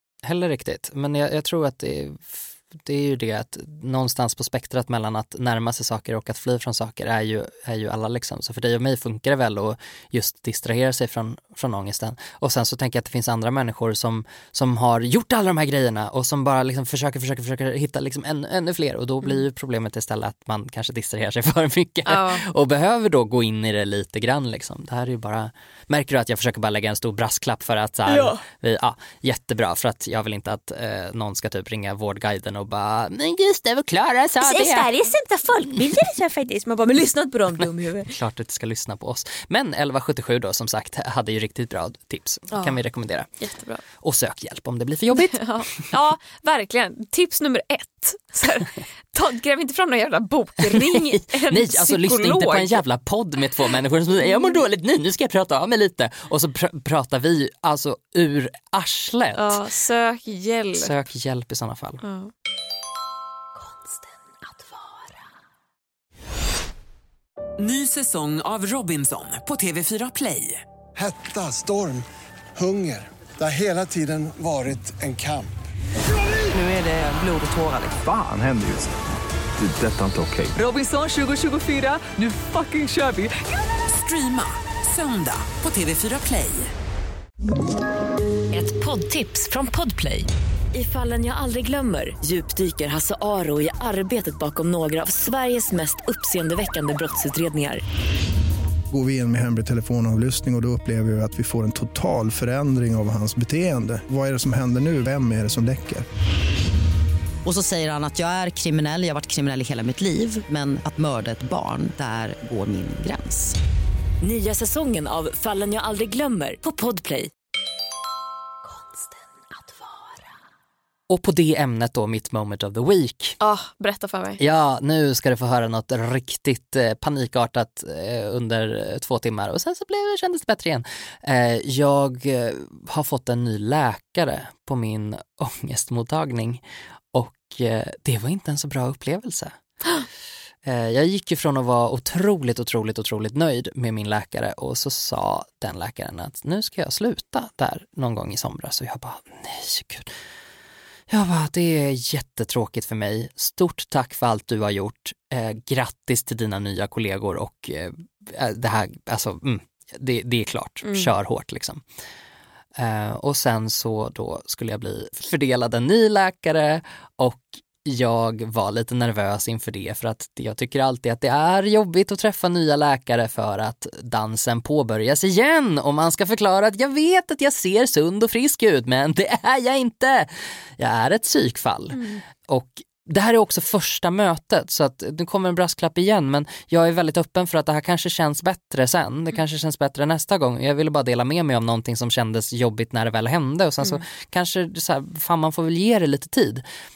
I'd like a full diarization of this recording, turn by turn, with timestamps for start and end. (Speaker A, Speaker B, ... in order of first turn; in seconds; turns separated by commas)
Speaker A: 0.2-34.9, Speaker B: 22.1-22.4, Speaker B: 28.1-28.4, Speaker B: 34.4-38.1, Speaker A: 35.8-36.1, Speaker A: 38.0-43.3, Speaker B: 42.5-42.8, Speaker B: 43.4-43.8, Speaker A: 44.0-45.5, Speaker B: 45.1-52.8, Speaker A: 50.6-59.6, Speaker B: 54.2-54.6, Speaker B: 59.3-60.9, Speaker A: 60.7-62.0, Speaker B: 62.0-62.3, Speaker C: 63.5-65.2, Speaker D: 67.6-70.6, Speaker E: 71.0-72.0, Speaker E: 72.6-75.5, Speaker D: 76.5-78.0, Speaker F: 78.0-78.9, Speaker F: 79.6-80.6, Speaker D: 80.5-83.3, Speaker D: 83.9-86.7, Speaker C: 88.5-97.8, Speaker G: 98.9-106.0, Speaker H: 107.4-113.5, Speaker C: 114.2-117.3, Speaker C: 118.6-120.3, Speaker A: 121.1-123.4, Speaker B: 123.4-124.4, Speaker A: 124.4-139.6, Speaker A: 140.6-150.1, Speaker A: 151.1-161.8, Speaker B: 160.8-161.1, Speaker A: 162.8-196.6, Speaker B: 181.9-182.2